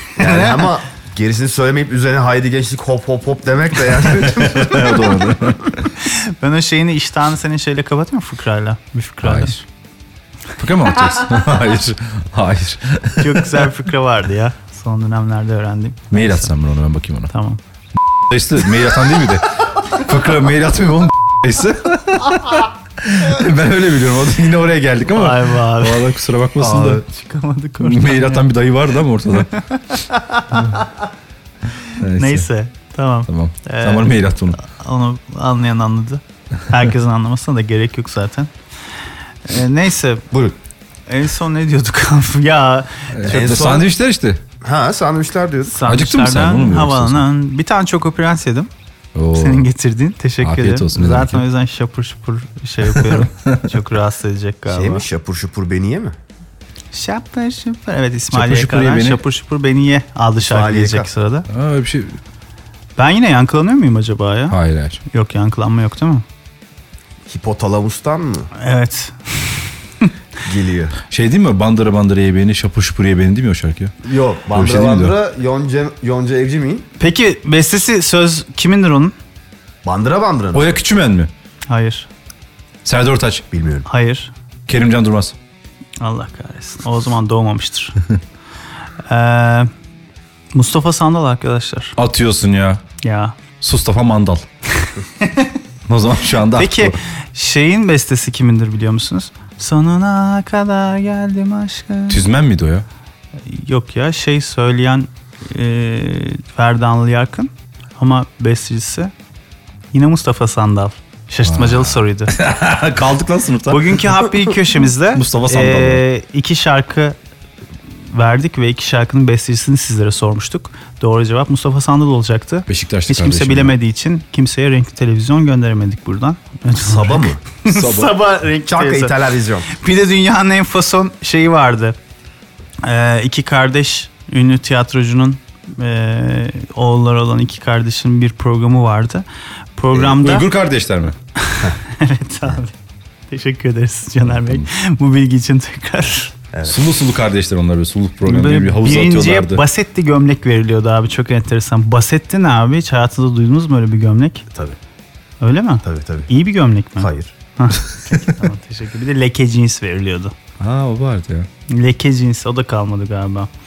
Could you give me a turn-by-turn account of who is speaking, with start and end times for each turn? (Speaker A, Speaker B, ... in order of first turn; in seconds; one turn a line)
Speaker A: 0.2-5.2
Speaker B: 0.2-0.6
Speaker C: 4.0-5.9
Speaker B: 6.0-9.6
Speaker C: 9.2-9.5
Speaker C: 10.6-13.7
Speaker B: 13.2-16.5
Speaker C: 16.1-17.3
Speaker B: 17.3-17.6
Speaker C: 18.1-27.0
Speaker B: 25.1-26.1
Speaker B: 26.6-28.4
Speaker C: 27.8-29.6
Speaker B: 29.4-31.0
Speaker C: 32.0-32.5
Speaker B: 32.1-38.5
Speaker C: 33.3-34.6
Speaker B: 39.5-40.3
Speaker B: 41.1-43.6
Speaker C: 43.1-44.4
Speaker A: 43.3-43.9
Speaker A: 44.6-45.8
Speaker B: 45.7-48.7
Speaker C: 45.8-47.2
Speaker C: 49.1-49.6
Speaker B: 49.3-55.0
Speaker C: 50.4-51.4
Speaker C: 52.9-53.6
Speaker A: 54.7-56.1
Speaker B: 56.9-61.5
Speaker C: 58.3-59.2
Speaker A: 60.4-61.1
Speaker C: 61.5-62.2
Speaker B: 63.0-64.6
Speaker C: 64.5-65.0
Speaker B: 65.1-66.2
Speaker A: 67.3-68.5
Speaker B: 68.6-70.1
Speaker A: 70.4-71.0
Speaker C: 71.1-73.9
Speaker A: 74.0-76.9
Speaker C: 74.5-75.1
Speaker B: 77.0-79.1
Speaker A: 79.8-80.7
Speaker C: 80.5-81.3
Speaker B: 81.7-82.1
Speaker C: 82.8-83.5
Speaker A: 83.5-83.8
Speaker B: 83.8-84.3
Speaker C: 84.7-85.3
Speaker B: 86.0-88.0
Speaker B: 89.1-89.7
Speaker B: 90.5-92.0
Speaker C: 92.0-92.8
Speaker B: 93.0-93.4
Speaker C: 93.6-94.5
Speaker B: 94.8-95.5
Speaker C: 95.9-96.9
Speaker B: 96.5-102.2
Speaker C: 102.1-102.8
Speaker B: 103.5-109.1
Speaker B: 109.9-112.3
Speaker C: 111.4-114.1
Speaker B: 113.7-117.2
Speaker C: 115.1-116.0
Speaker B: 118.1-129.1
Speaker C: 122.7-123.8
Speaker A: 126.8-127.4
Speaker C: 127.7-128.2
Speaker A: 128.7-129.7
Speaker B: 129.7-132.0
Speaker B: 132.8-139.2
Speaker B: 139.8-140.5
Speaker C: 139.9-141.2
Speaker B: 141.4-142.7
Speaker B: 143.3-146.3
Speaker C: 144.3-144.7
Speaker A: 146.5-146.8
Speaker C: 146.6-149.6
Speaker B: 148.2-154.4
Speaker B: 155.4-160.3
Speaker A: 155.8-156.3
Speaker A: 157.0-157.3
Speaker C: 160.6-161.5
Speaker B: 161.7-163.5